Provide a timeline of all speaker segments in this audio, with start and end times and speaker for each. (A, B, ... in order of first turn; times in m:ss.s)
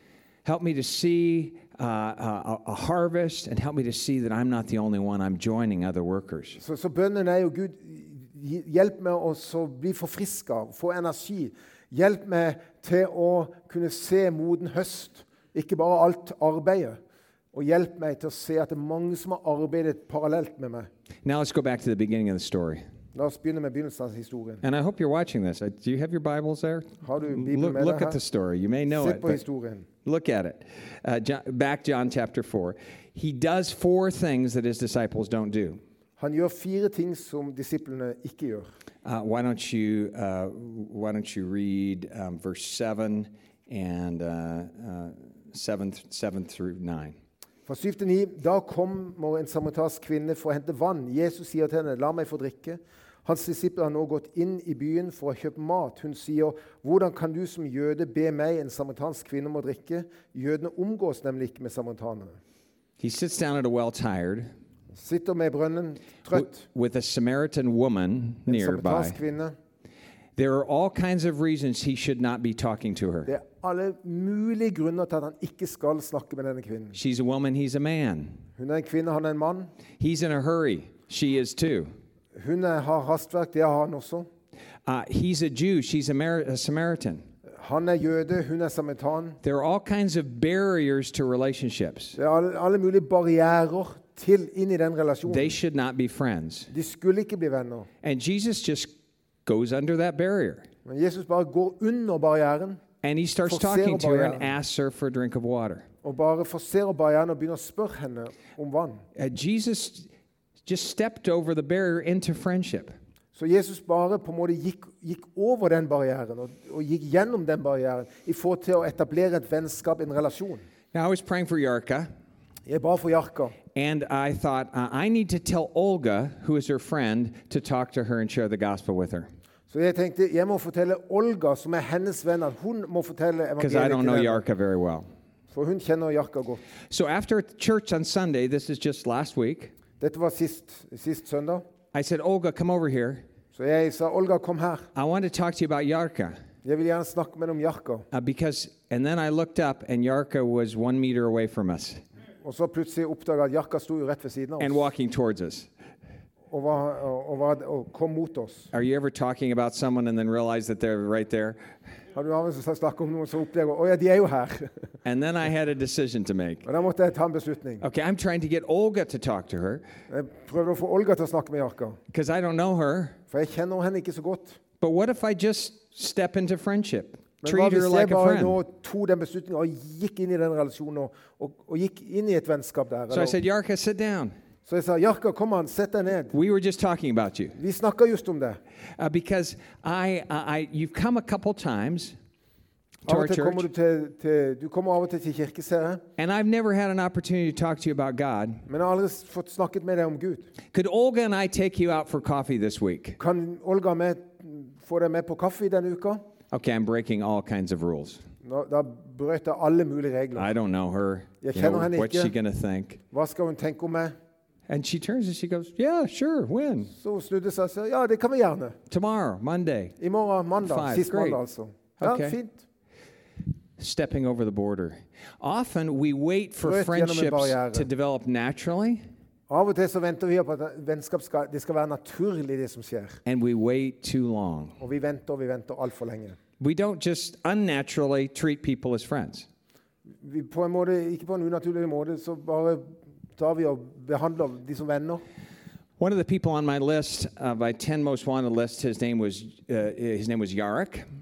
0:00.4-0:06.6 A
0:06.6-0:17.0 B
0:17.5-0:20.9 B
0:21.2-0:22.8 A
0:23.1-0:24.6 B
0:24.6-0:29.4 A
0:27.0-0:28.2 B
0:28.9-0:29.9 B
0:30.0-0:35.8 A
0:36.2-0:38.7 B
0:39.0-0:47.2 A
0:47.6-1:02.4 B
1:03.0-1:04.5 A
1:04.9-1:06.6 B
1:06.3-1:09.2 A
1:08.5-1:09.5 B
1:10.4-1:13.3 A
1:13.3-1:17.0 B
1:16.9-1:18.4 A
1:18.6-1:19.7 B
1:20.0-1:21.9 A
1:22.3-1:24.3 B
1:24.8-1:27.2 A
1:27.6-1:29.4 B
1:29.4-1:32.2 A
1:32.2-1:35.5 B
1:35.2-1:36.7 A
1:36.7-1:37.9 B
1:38.0-1:38.9 A
1:39.4-1:40.7 A
1:40.8-1:42.8 B
1:43.0-1:45.9 A
1:43.4-1:44.5 B
1:46.0-1:49.0 B
1:49.1-1:50.1 A
1:50.6-1:52.9 A
1:53.3-2:00.6 B
2:00.9-2:02.1 A
2:02.7-2:03.6 B
2:03.7-2:09.3 A
2:09.7-2:14.4 B
2:13.6-2:15.1 A
2:15.5-2:16.6 B
2:16.9-2:19.7 A
2:20.0-2:21.6 B
2:21.9-2:23.2 A
2:23.5-2:24.9 B
2:24.9-2:26.4 A
2:26.6-2:28.1 B
2:28.1-2:32.0 A
2:32.4-2:34.8 B
2:34.6-2:35.7 A
2:36.5-2:38.7 B
2:38.7-2:41.6 A
2:42.1-2:44.8 B
2:45.0-2:46.6 A
2:46.6-2:47.8 B
2:47.8-2:49.8 A
2:50.1-2:52.0 B
2:52.1-2:53.2 A
2:53.3-2:54.6 B
2:54.8-2:58.6 A
2:57.4-3:03.4 B
3:03.1-3:04.3 A
3:04.7-3:06.3 B
3:06.3-3:07.6 A
3:07.6-3:08.6 B
3:09.0-3:12.1 A
3:13.0-3:13.7 A
3:13.1-3:16.0 B
3:16.2-3:18.6 A
3:18.7-3:20.5 B
3:20.7-3:23.2 A
3:23.2-3:26.2 B
3:26.5-3:28.2 A
3:28.4-3:30.5 B
3:30.4-3:33.0 A
3:31.4-3:32.3 B
3:33.1-3:34.1 B
3:34.7-3:36.9 A
3:36.9-3:38.8 B
3:38.9-3:39.9 A
3:40.0-3:42.6 B
3:40.6-3:41.4 A
3:42.0-3:42.4 A
3:43.8-3:49.0 A
3:46.6-3:47.9 B
3:49.5-3:53.2 B
3:53.2-3:54.8 A
3:54.8-3:56.4 B
3:56.6-3:59.5 A
4:00.2-4:05.2 B
4:06.0-4:11.0 A